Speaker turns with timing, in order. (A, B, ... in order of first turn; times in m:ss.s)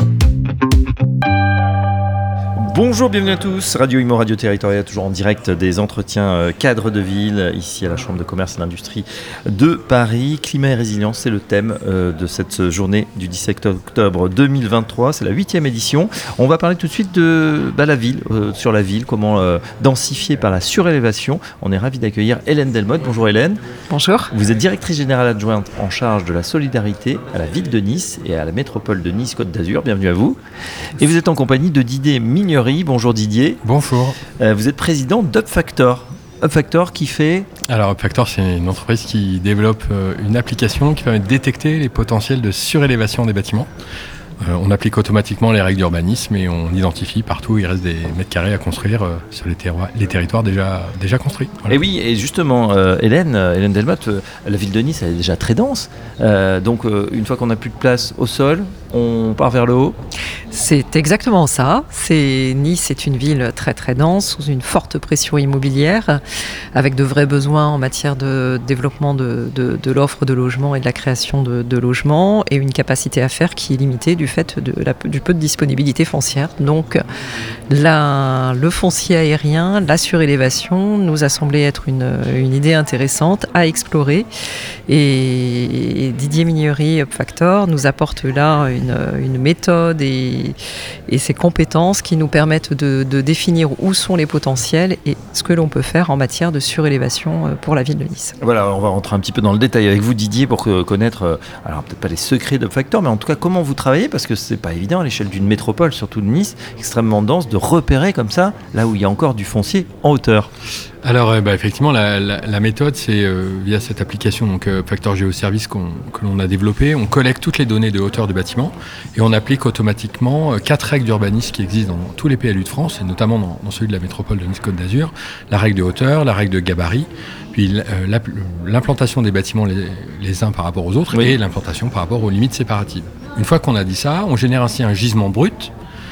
0:02.6-0:23.6 A
0:23.9-0:24.3 B
0:24.3-0:30.4 A
0:31.0-0:33.6 A
0:33.6-0:34.2 C
0:34.4-0:37.5 A
0:37.7-0:43.7 C
0:44.4-0:51.8 C
0:51.7-1:00.0 A
1:00.5-1:06.2 B
1:06.8-1:17.0 B
1:17.7-1:24.3 B
1:24.9-1:30.6 B
1:31.1-1:38.4 B
1:38.4-1:50.5 A
1:51.0-2:15.7 C
2:11.1-2:11.4 A